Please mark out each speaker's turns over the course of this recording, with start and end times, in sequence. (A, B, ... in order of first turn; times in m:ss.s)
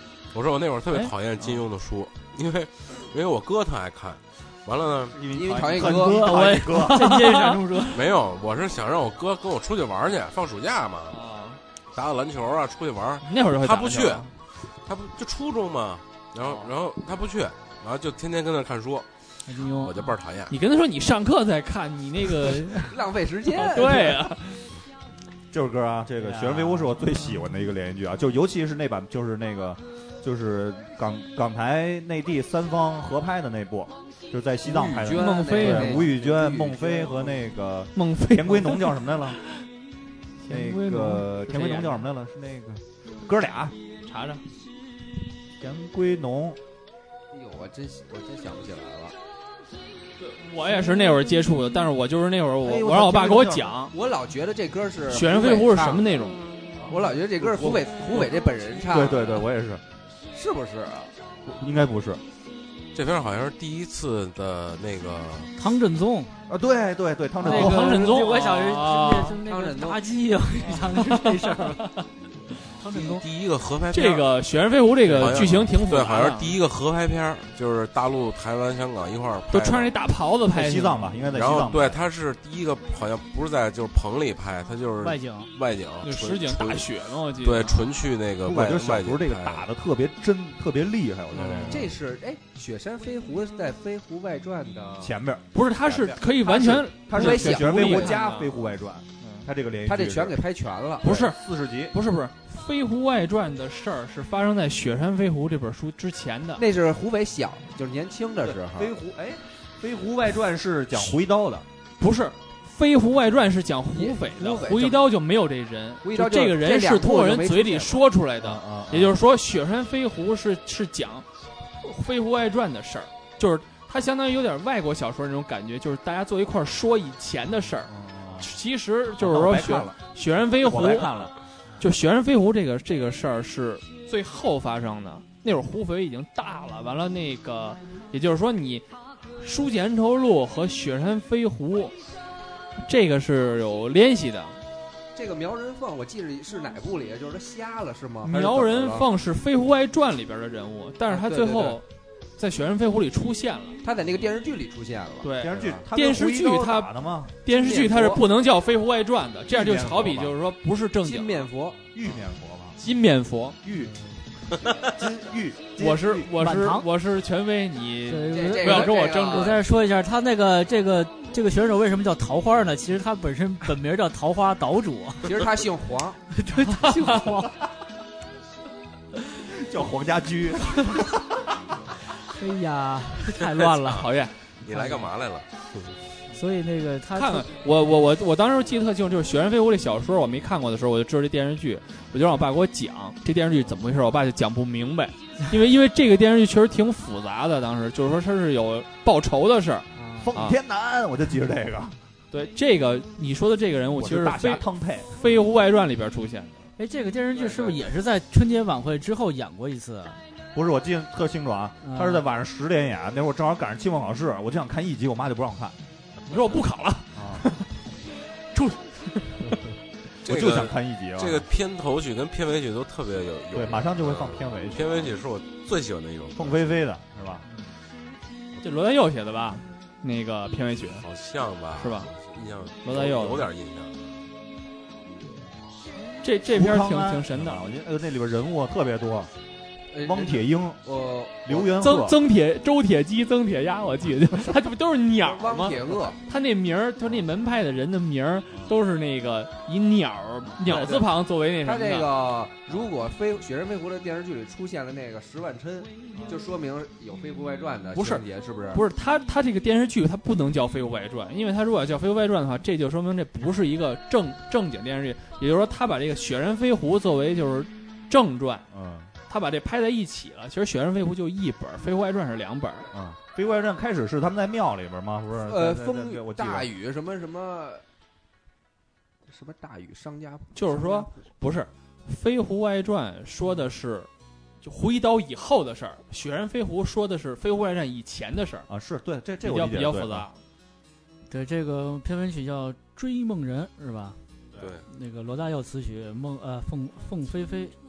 0:00.3-0:05.2 A
0:05.1-0:07.0 B
0:05.3-0:06.3 C
0:06.0-0:08.1 D
0:06.3-0:07.7 E
0:07.9-0:11.2 A
0:11.1-0:11.6 E
0:11.9-0:19.1 A
0:13.2-0:14.3 E
0:16.4-0:16.7 E
0:19.4-0:20.1 D
0:19.7-0:20.6 A
0:20.5-0:23.0 E
0:22.8-0:24.3 C
0:23.5-0:24.7 E
0:25.5-0:39.4 B
0:26.2-0:27.2 D
0:34.6-0:37.4 C
0:35.1-0:36.1 E
0:37.9-0:39.6 E
0:40.4-0:42.0 E
0:40.5-0:43.8 B
0:44.0-0:44.4 E
0:45.6-0:46.6 B
0:47.3-0:49.2 C
0:50.2-0:53.9 E
0:52.6-0:53.7 B
0:52.7-0:53.0 C
0:53.9-0:56.1 C
0:55.1-0:56.4 E
0:56.8-0:58.3 B
0:56.8-0:59.4 C
0:58.9-0:59.8 B
1:00.3-1:01.1 C
1:01.4-1:02.2 B
1:02.9-1:05.5 A
1:05.6-1:06.3 D
1:06.5-1:08.1 B
1:07.4-1:11.9 D
1:07.4-1:09.4 E
1:09.4-1:10.1 C
1:10.9-1:12.1 E
1:12.8-1:13.2 D
1:12.9-1:14.3 A
1:13.9-1:16.6 E
1:15.0-1:19.9 A
1:19.5-1:21.2 E
1:20.5-1:22.0 B
1:21.2-1:29.6 A
1:25.0-1:25.5 D
1:26.0-1:27.9 E
1:28.4-1:31.9 B
1:31.3-1:31.8 A
1:31.4-1:31.8 E
1:31.7-1:35.2 C
1:35.0-1:40.4 B
1:35.5-1:38.6 E
1:36.4-1:38.2 C
1:39.2-1:39.5 E
1:39.8-1:41.0 C
1:41.0-1:41.4 E
1:41.0-1:42.0 B
1:41.9-1:46.6 E
1:46.6-1:48.9 C
1:48.5-1:51.6 B
1:52.0-2:01.3 E
1:53.9-1:55.1 C
1:56.0-1:58.0 C
1:58.4-1:59.2 B
2:01.8-2:18.8 E
2:07.9-2:08.5 B
2:09.2-2:10.0 B
2:10.6-2:11.3 B
2:19.4-2:22.0 E
2:22.8-2:24.6 E
2:25.1-2:29.1 C
2:28.2-2:31.8 E
2:31.1-2:31.8 C
2:32.4-2:33.8 E
2:33.8-2:35.8 C
2:35.2-2:36.9 E
2:35.4-2:37.3 B
2:37.4-2:41.5 E
2:37.5-2:38.2 C
2:39.5-2:40.4 B
2:41.0-2:41.9 C
2:41.9-2:42.8 B
2:42.8-2:43.6 E
2:43.6-2:43.9 B
2:44.8-2:46.3 B
2:45.8-2:49.6 E
2:46.4-2:46.8 D
2:48.1-2:55.3 D
2:48.3-2:49.6 C
2:55.2-2:56.2 C
2:56.3-2:57.5 D
2:56.6-2:57.3 E
2:59.4-3:01.1 B
3:02.3-3:04.0 D
3:03.7-3:04.1 A
3:04.0-3:04.5 E
3:04.6-3:05.5 A
3:04.7-3:05.1 D
3:06.3-3:07.5 D
3:07.1-3:20.6 E
3:19.9-3:20.4 D
3:20.2-3:22.0 B
3:22.3-3:26.7 E
3:24.0-3:25.1 B
3:26.8-3:30.2 D
3:27.3-3:27.8 C
3:30.5-3:35.8 B
3:31.8-3:32.2 D
3:36.3-3:37.6 E
3:37.1-3:37.5 B
3:38.5-3:39.6 E
3:40.2-3:46.7 A
3:40.2-3:41.4 B
3:43.5-3:45.2 B
3:46.3-3:47.4 B
3:48.6-3:51.0 E
3:51.0-3:54.0 A
3:51.8-3:52.1 E
3:52.8-3:53.5 E
3:56.2-3:57.6 E
3:56.5-3:59.3 B
3:59.9-4:01.7 C
4:00.0-4:00.8 B
4:01.4-4:02.2 B
4:01.8-4:12.1 E
4:05.2-4:06.2 C
4:10.6-4:18.8 C
4:17.9-4:28.7 E
4:28.7-4:29.1 B
4:29.3-4:32.9 E
4:32.9-4:36.7 B
4:35.4-4:37.8 C
4:39.2-4:41.3 C
4:40.5-4:44.1 E
4:44.6-4:48.7 E
4:48.7-4:50.3 B
4:49.4-4:50.4 E
4:51.3-4:54.2 D
4:54.6-4:54.8 A
4:54.9-4:57.7 D